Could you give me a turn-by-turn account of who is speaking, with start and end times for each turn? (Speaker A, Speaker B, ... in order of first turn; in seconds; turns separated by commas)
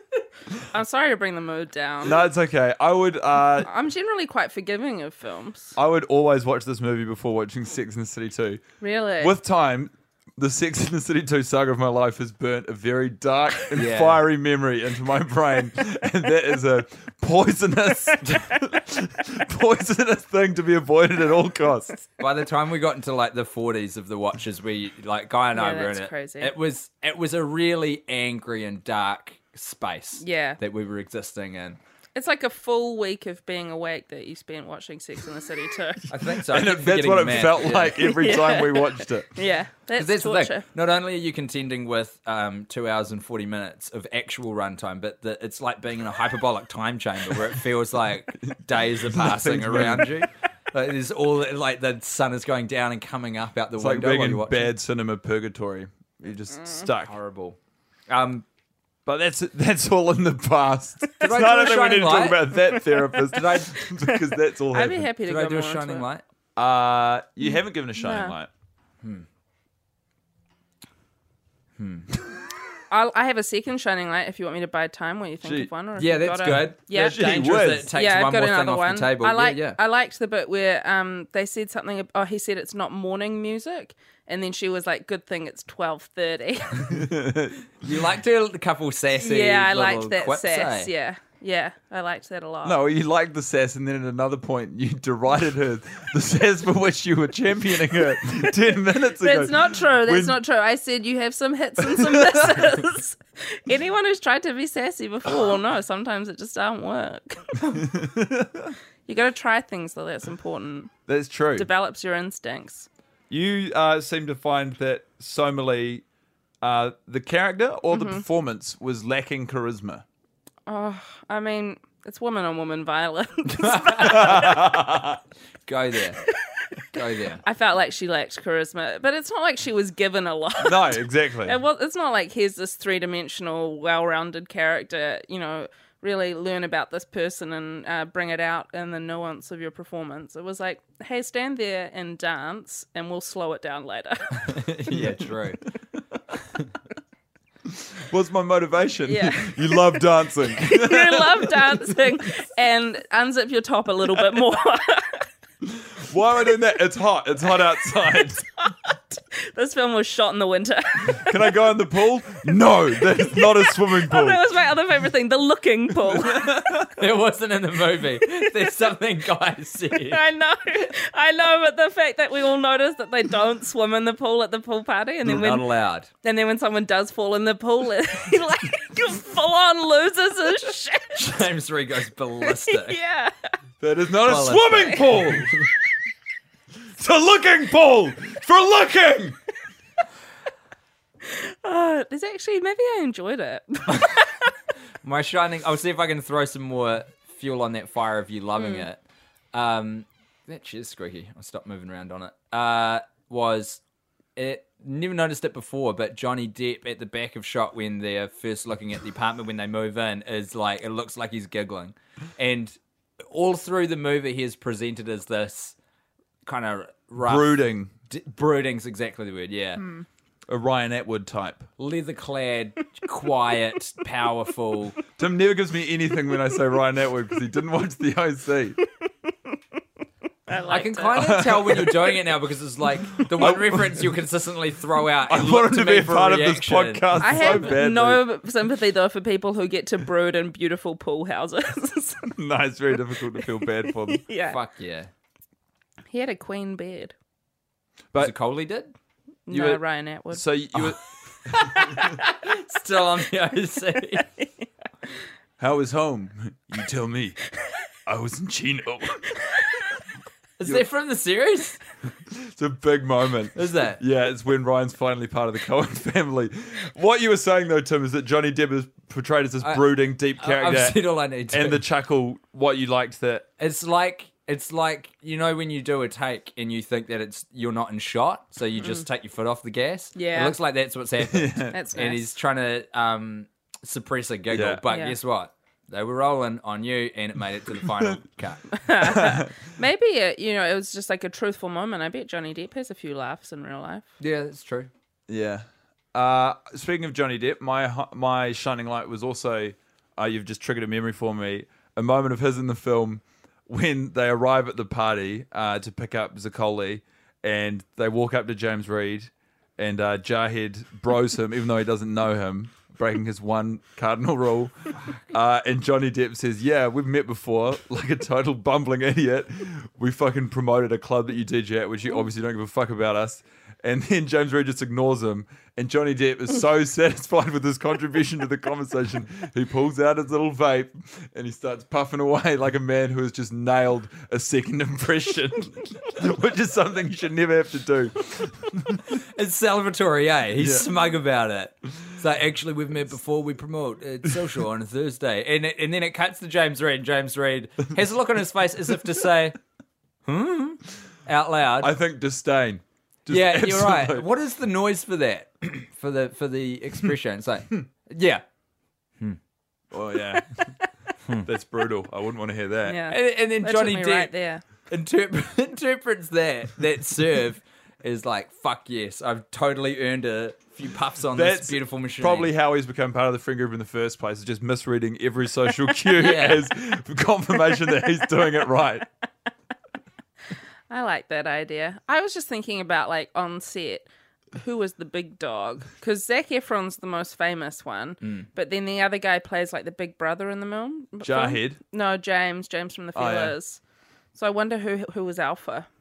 Speaker A: 0.7-2.2, Speaker B: 2.0-3.7, Speaker A: 3.6-5.8, Speaker B: 5.8-8.6, Speaker A: 8.8-9.3, Speaker B: 9.2-22.0, Speaker C: 13.7-14.2, Speaker C: 22.2-31.8, Speaker A: 25.5-26.5, Speaker A: 30.2-30.6, Speaker A: 32.1-36.0, Speaker C: 36.1-38.1, Speaker B: 36.4-39.3, Speaker A: 38.0-40.6, Speaker C: 40.0-54.7, Speaker B: 48.8-50.2, Speaker B: 53.8-57.1, Speaker C: 57.0-57.6, Speaker C: 58.1-58.5, Speaker B: 59.0-65.1, Speaker C: 61.2-62.5, Speaker A: 63.1-66.1, Speaker C: 63.3-63.8, Speaker C: 65.2-66.2, Speaker B: 66.5-68.5, Speaker A: 67.4-68.3, Speaker C: 71.8-72.1, Speaker A: 72.9-87.0, Speaker B: 75.4-75.7, Speaker C: 76.0-79.8, Speaker B: 76.9-77.9, Speaker B: 86.9-87.6, Speaker C: 87.8-90.9, Speaker A: 89.2-92.8, Speaker B: 92.6-100.4, Speaker A: 99.2-107.9, Speaker B: 101.8-102.7, Speaker B: 107.7-108.7, Speaker A: 109.1-110.9, Speaker B: 111.1-111.7, Speaker A: 111.5-112.9, Speaker B: 113.3-116.0, Speaker B: 116.6-120.0, Speaker A: 117.9-118.2, Speaker A: 120.7-124.6, Speaker C: 123.5-124.8, Speaker B: 124.0-125.2, Speaker C: 125.7-126.2, Speaker C: 126.9-127.4, Speaker A: 127.4-144.6, Speaker B: 130.6-131.6, Speaker C: 144.4-145.6, Speaker B: 147.7-151.7, Speaker A: 149.1-150.0, Speaker A: 150.6-155.2, Speaker B: 155.6-158.5, Speaker A: 158.2-161.5, Speaker B: 161.1-164.4, Speaker A: 163.0-166.6, Speaker B: 166.0-166.9, Speaker C: 166.9-170.2, Speaker A: 168.4-168.8, Speaker A: 169.9-175.7, Speaker C: 175.2-176.1, Speaker A: 176.2-181.5, Speaker C: 181.2-183.0, Speaker A: 182.4-183.3, Speaker B: 183.8-185.7, Speaker C: 184.2-185.7, Speaker B: 187.0-189.4, Speaker A: 191.2-194.5, Speaker C: 195.0-199.0, Speaker A: 198.6-198.9, Speaker C: 199.5-203.8, Speaker C: 204.3-215.7, Speaker C: 216.4-219.9, Speaker B: 217.2-217.9, Speaker B: 220.5-221.7, Speaker C: 221.8-225.0, Speaker B: 225.2-228.8, Speaker A: 230.5-232.0, Speaker C: 230.7-237.7, Speaker B: 231.1-232.2, Speaker B: 233.3-234.2, Speaker B: 235.3-238.2, Speaker A: 237.2-242.3, Speaker B: 242.3-244.2, Speaker A: 243.4-244.6, Speaker C: 244.5-245.1, Speaker A: 246.1-247.1, Speaker C: 248.2-248.9, Speaker A: 249.5-250.4, Speaker B: 249.5-251.9, Speaker C: 251.6-254.3, Speaker B: 255.6-257.4, Speaker B: 258.1-259.3, Speaker C: 260.6-261.8, Speaker B: 262.3-273.4, Speaker C: 263.5-264.0, Speaker C: 269.6-271.8, Speaker C: 273.6-288.8, Speaker A: 278.8-279.1, Speaker A: 280.1-280.6, Speaker B: 281.2-281.8, Speaker A: 281.7-282.3, Speaker B: 284.5-284.8, Speaker A: 284.9-285.2, Speaker A: 288.8-294.1, Speaker B: 289.0-289.5, Speaker C: 294.2-294.9, Speaker B: 295.3-339.0, Speaker C: 339.1-349.6, Speaker B: 340.6-340.9, Speaker C: 350.2-351.9, Speaker B: 351.8-354.3, Speaker C: 353.3-358.4, Speaker B: 359.9-360.7, Speaker B: 361.4-363.0, Speaker A: 362.9-364.6, Speaker C: 363.1-364.3, Speaker C: 364.9-372.5, Speaker B: 371.3-379.1, Speaker C: 376.2-376.6, Speaker A: 380.9-393.8, Speaker C: 388.2-388.5, Speaker B: 391.2-391.8, Speaker B: 393.1-393.5, Speaker A: 394.3-395.9